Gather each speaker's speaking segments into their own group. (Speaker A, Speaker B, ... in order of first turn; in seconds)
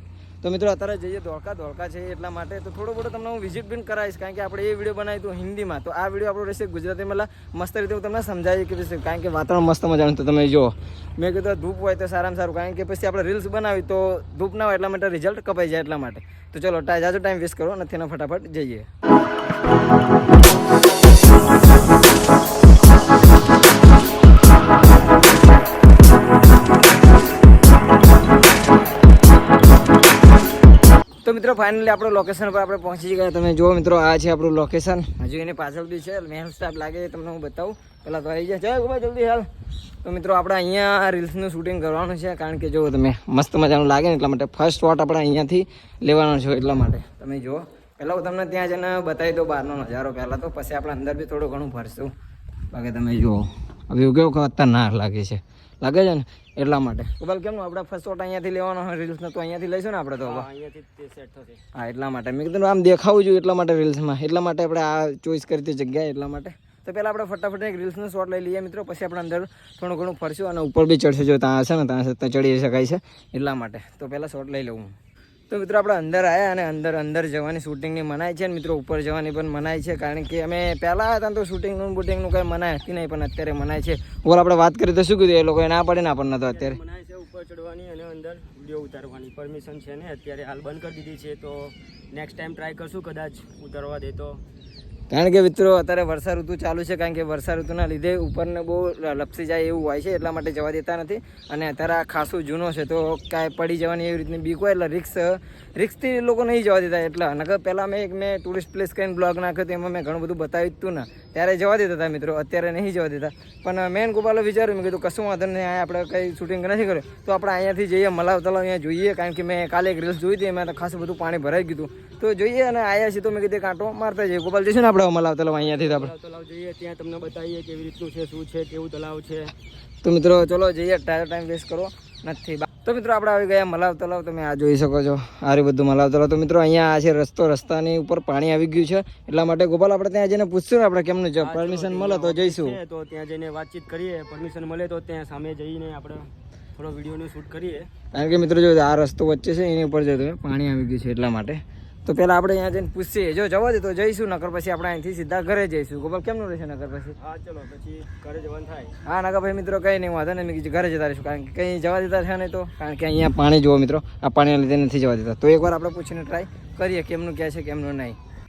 Speaker A: 0.4-18.9, 31.2-39.5, 40.0-52.1, 52.7-60.5, 61.7-74.9, 75.5-86.8, 95.1-126.1, 130.0-142.8, 148.1-157.1, 159.0-168.2
Speaker B: 60.2-61.6, 86.5-94.4, 125.5-129.5, 141.4-147.9, 157.2-158.9